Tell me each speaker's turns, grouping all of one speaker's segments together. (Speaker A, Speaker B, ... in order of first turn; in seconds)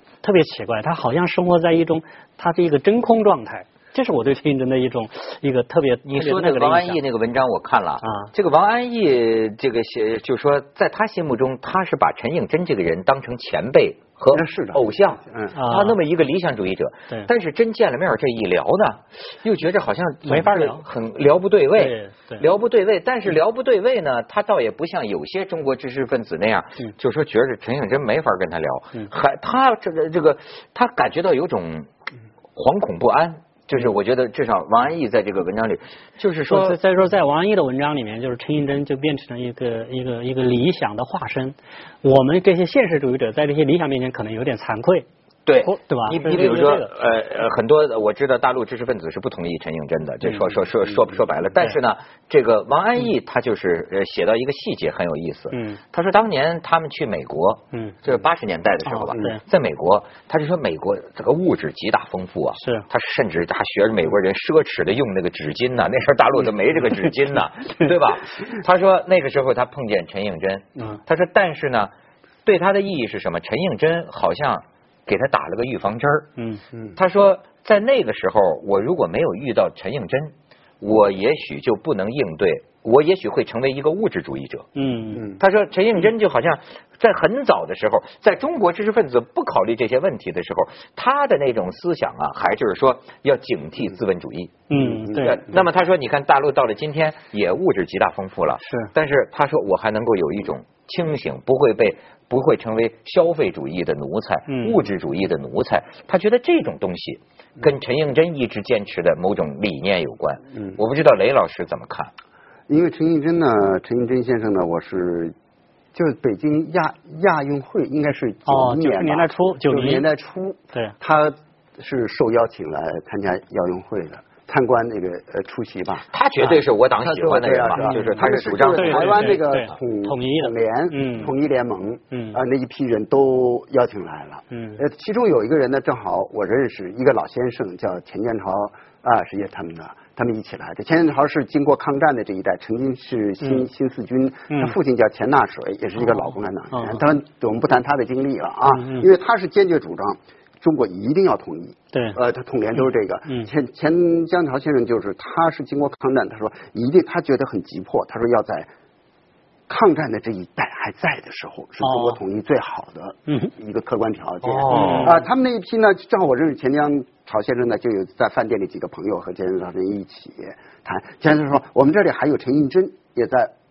Speaker A: 0.2-7.0, 8.0-8.3, 15.5-16.0, 20.2-20.8, 21.8-22.4, 36.5-45.1, 45.6-46.9, 55.5-55.8, 57.7-58.0, 58.9-59.4, 62.6-62.9, 84.7-85.3, 94.7-95.4, 98.6-98.9, 104.5-104.8, 118.5-120.0, 127.8-131.3, 132.1-132.4, 134.5-134.8, 146.0-147.0, 148.7-149.1, 151.9-152.2, 161.8-162.2, 164.7-165.2
Speaker B: 6.0-31.9, 32.5-36.8, 45.5-71.9, 72.4-76.3, 77.0-84.7, 85.4-112.1, 126.1-129.4, 164.4-165.2
Speaker C: 14.3-15.5, 94.8-95.2, 112.7-115.3, 115.9-158.7, 159.7-173.5